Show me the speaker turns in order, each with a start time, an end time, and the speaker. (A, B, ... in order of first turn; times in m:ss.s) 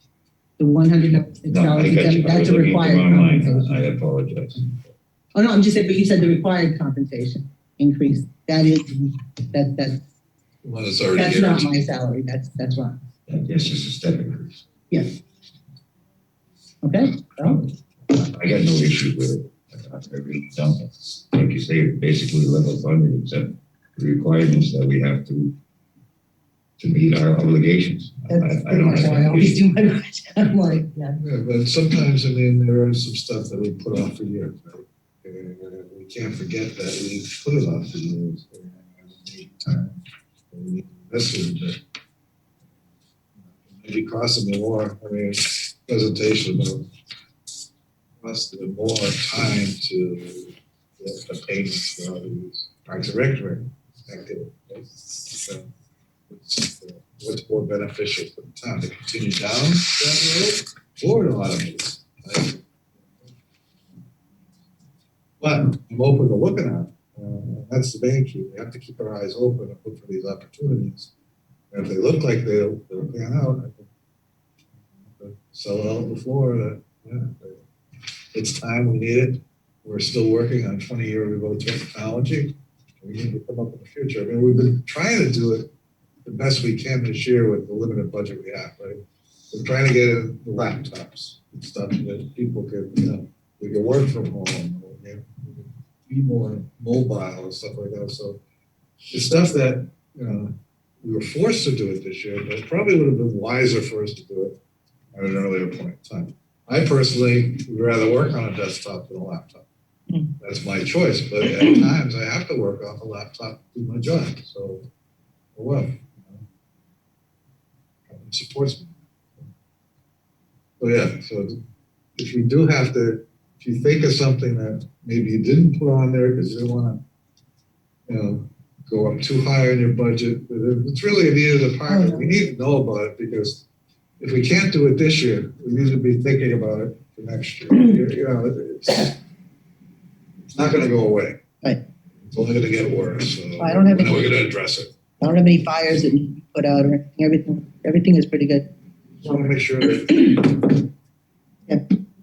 0:00.6-0:03.8 A
0:01.5-0:04.8 B
0:05.3-0:10.0 A
0:10.6-0:11.7 C
0:11.1-0:13.0 A
0:13.3-0:14.6 B
0:16.8-0:17.6 A
0:17.4-0:25.6 B
0:26.8-0:29.6 B
0:28.3-0:31.2 A
0:31.2-0:40.0 C
0:40.5-0:41.8 C
0:43.4-0:46.9 C
0:48.2-0:55.7 C
0:56.3-1:02.6 C
1:05.4-1:11.1 C
1:11.7-1:13.9 C
1:15.0-1:17.6 C
1:18.3-1:25.7 C
1:26.2-1:29.0 C
1:29.5-1:38.4 C
1:39.1-1:44.6 C
1:45.1-1:49.6 C
1:50.4-1:54.8 C
1:55.5-1:56.4 C
1:58.1-1:59.5 C
2:00.8-2:01.6 C
2:02.2-2:07.0 C
2:08.1-2:13.6 C
2:11.9-2:12.3 A
2:14.2-2:19.2 C
2:20.5-2:21.4 C
2:22.3-2:24.9 C
2:23.6-2:24.4 A
2:25.2-2:28.7 A
2:29.2-2:30.5 C
2:30.3-2:30.5 A